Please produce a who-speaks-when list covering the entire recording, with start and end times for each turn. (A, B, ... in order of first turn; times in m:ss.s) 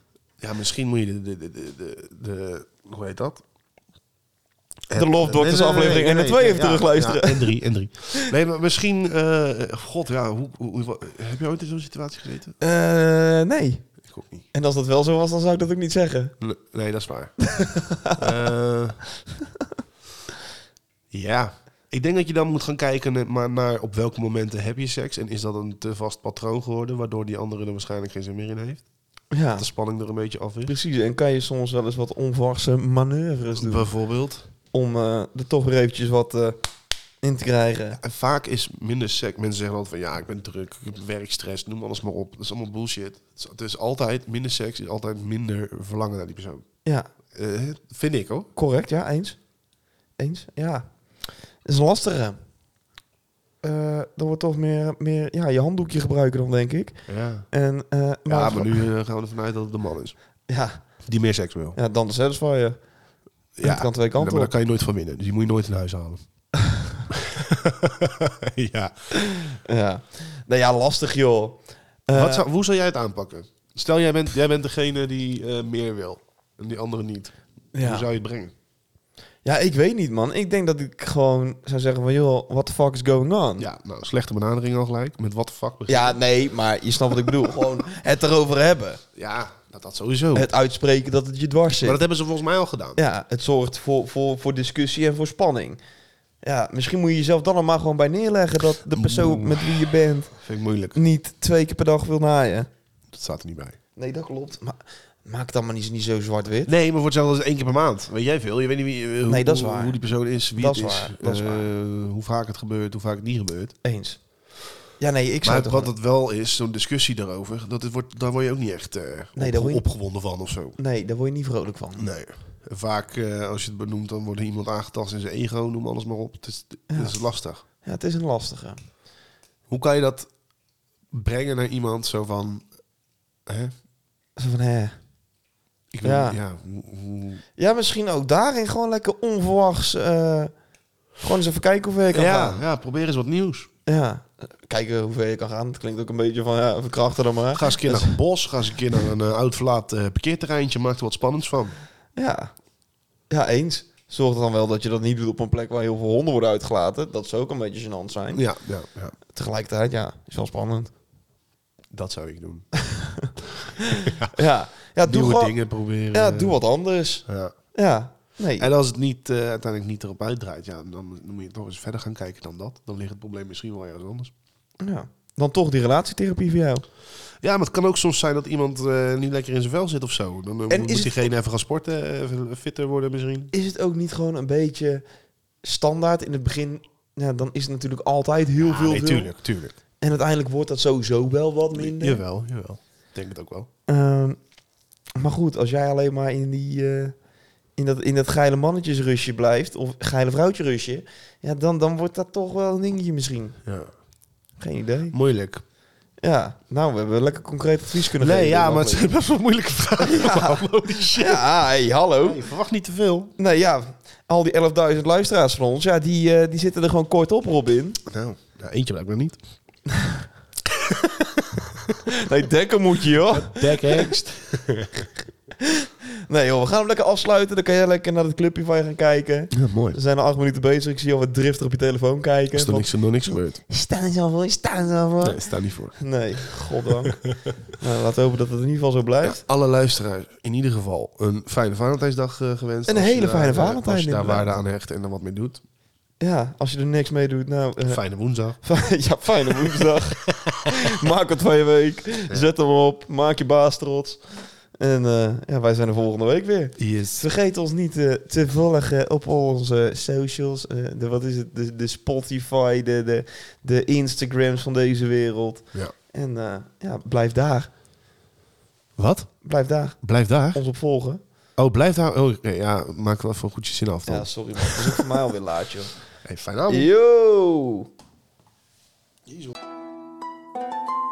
0:00.4-0:03.4 A
0:04.9-0:12.6 A
0:04.9-0:07.6 B
0:12.6-0:13.8 B
0:14.0-0:14.4 A
0:14.5-0:16.3 B
0:16.4-0:17.4 A
0:17.5-0:18.4 B
0:18.2-0:19.0 A
0:21.1-0:28.8 A
0:29.3-0:29.6 B
0:29.6-0:30.7 A
0:30.6-0:33.9 B
0:33.6-0:34.4 A
0:34.7-0:36.6 B
0:37.2-0:38.0 B
0:38.0-0:46.6 A
0:47.3-0:48.5 A
0:48.5-0:49.4 B
0:50.2-0:50.9 B
0:51.6-0:52.4 B
0:53.6-0:57.0 B
0:57.1-0:57.5 A
0:57.5-0:58.8 B
0:58.3-1:00.2 A
1:00.5-1:00.8 B
1:01.0-1:01.8 A
1:01.7-1:02.8 B
1:03.6-1:06.2 A
1:03.6-1:04.5 B
1:07.1-1:08.9 A
1:09.6-1:12.4 B
1:12.1-1:18.5 A
1:17.7-1:18.0 B
1:19.4-1:23.7 B
1:23.6-1:26.2 A
1:25.9-1:29.0 B
1:29.1-1:30.5 A
1:30.3-1:32.0 B
1:31.8-1:33.0 A
1:33.0-1:35.8 B
1:36.4-1:40.4 B
1:38.9-1:41.0 A
1:40.9-1:42.7 B
1:43.1-1:43.8 A
1:44.0-1:46.7 B
1:46.6-1:53.7 A
1:49.3-1:50.0 B
1:50.6-1:51.7 B
1:53.8-1:54.2 B
1:55.0-1:55.9 B
1:55.4-2:00.8 A
1:59.4-1:59.8 B
2:00.8-2:02.1 B
2:02.0-2:07.6 A
2:06.9-2:07.2 B
2:07.8-2:08.8 B
2:09.7-2:10.3 A
2:11.1-2:12.6 A
2:13.4-2:13.7 A
2:14.4-2:15.0 B
2:15.9-2:17.4 A
2:16.0-2:16.4 B
2:17.6-2:20.5 B
2:21.2-2:22.6 B
2:22.1-2:23.7 A
2:23.8-2:28.2 B
2:27.5-2:31.7 A
2:32.2-2:32.5 B
2:33.3-2:38.4 B
2:38.3-2:39.2 A
2:39.3-2:40.9 B
2:41.9-2:42.7 A
2:42.9-2:43.3 B
2:43.4-2:44.4 A
2:43.9-2:45.5 B
2:45.0-2:46.6 A
2:46.1-2:48.7 B
2:47.2-2:47.5 A
2:48.6-2:54.3 A
2:54.8-2:56.8 B
2:57.4-3:03.5 A
3:00.7-3:01.3 B
3:03.5-3:05.0 B
3:05.6-3:09.3 B
3:08.6-3:09.8 A
3:10.0-3:12.2 B
3:11.7-3:13.7 A
3:13.9-3:14.4 B
3:15.2-3:17.2 B
3:17.8-3:23.6 B
3:23.6-3:23.9 A
3:24.6-3:25.1 B
3:25.1-3:25.6 A
3:26.2-3:29.1 B
3:28.2-3:31.5 A
3:30.0-3:30.6 B
3:31.1-3:32.4 B
3:32.2-3:33.3 A
3:33.4-3:38.0 B
3:38.0-3:39.4 A
3:40.7-3:41.9 A
3:42.1-3:44.1 B
3:43.3-3:45.1 A
3:45.6-3:55.4 B
3:49.5-3:50.0 A
3:52.5-3:53.6 A
3:55.2-3:57.3 A
3:56.0-3:57.2 B
3:57.8-3:59.4 B
3:59.2-4:05.6 A
4:02.9-4:04.6 B
4:06.2-4:08.0 B
4:07.9-4:08.6 A
4:08.6-4:14.2 B
4:10.3-4:10.7 A
4:14.8-4:27.7 B
4:16.8-4:17.2 A
4:29.0-4:29.3 A
4:29.4-4:30.0 B
4:30.0-4:30.6 A
4:30.5-4:31.2 B
4:31.6-4:35.0 A
4:34.1-4:35.9 B
4:36.2-4:36.9 A
4:36.7-4:37.9 B
4:39.3-4:39.5 A